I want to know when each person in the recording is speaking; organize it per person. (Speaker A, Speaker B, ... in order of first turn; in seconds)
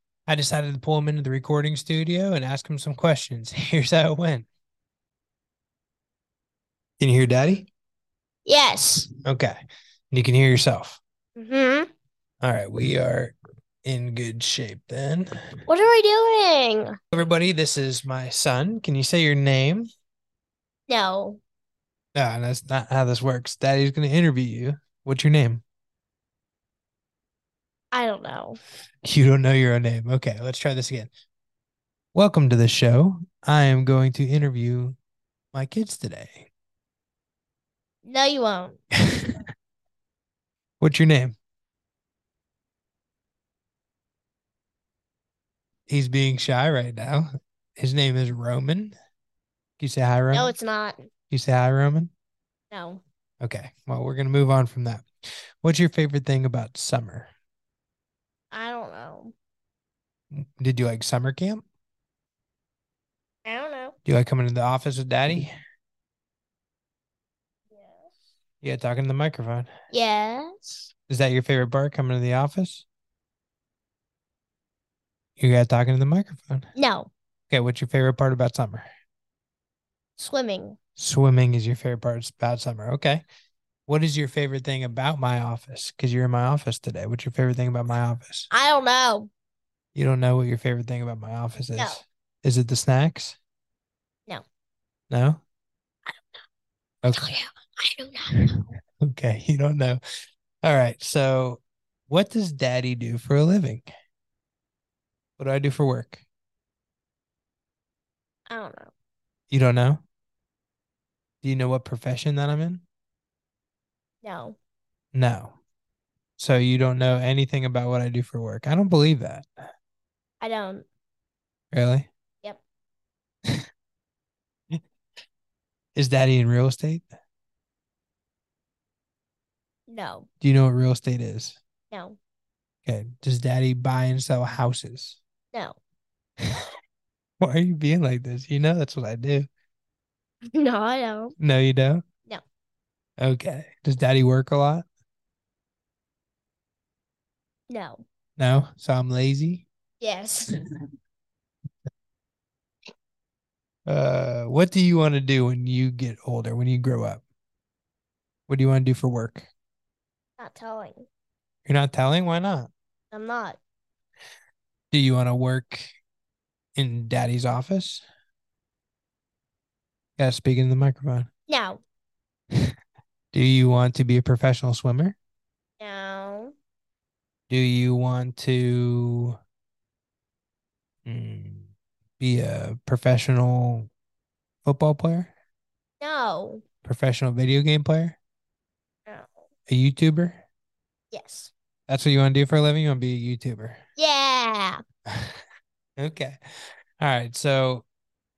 Speaker A: 0.3-4.5, 7.0-7.7, 9.2-9.6, 10.1-11.0, 12.4-15.3, 17.1-19.9, 22.1-25.6, 29.1-31.1, 32.1-35.0, 35.5-36.5, 39.1-39.4, 40.8-41.4, 45.9-49.0, 49.8-50.5, 51.3-52.1, 53.4-55.1, 55.6-57.3, 60.3-61.6, 64.0-65.5, 68.6-69.7, 71.1-72.8, 75.4-76.7, 77.5-78.9, 81.0-83.2, 83.9-88.5, 90.0-93.4, 95.1-95.4, 97.0-97.3, 99.0-100.0, 100.6-103.9, 105.4-106.2, 109.5-110.0, 111.4-112.8, 115.1-115.6, 116.4-119.5, 121.7-122.1, 126.0-127.1, 130.4-131.6, 132.8-135.2, 137.4-139.5, 141.4-142.0, 143.2-144.9, 148.4-149.7, 153.9-157.2, 158.5-159.5, 161.7-162.7, 164.9-165.9, 166.8-168.0, 170.2-171.3, 173.3-175.2, 177.5-179.4, 181.1-183.9, 184.7-185.3, 186.8-188.2, 189.7-190.4, 191.9-193.8, 195.1-195.4, 196.0-196.4, 197.0-197.8
Speaker B: 8.5-9.1, 11.4-11.9, 15.7-16.9, 20.9-21.4, 27.9-28.6, 38.0-38.8, 50.3-51.1, 52.7-53.0, 58.5-59.3, 63.5-64.0, 67.7-68.1, 69.9-70.9, 76.8-77.1, 80.2-80.8, 88.5-89.3, 97.1-98.7, 108.5-108.9, 114.2-114.6, 120.4-120.9, 129.9-130.3, 131.9-132.2, 140.5-141.4, 147.7-148.0, 150.0-150.5, 160.4-161.1, 163.1-163.6, 171.5-171.8, 175.8-176.5, 186.0-186.6, 191.1-191.5, 194.0-194.8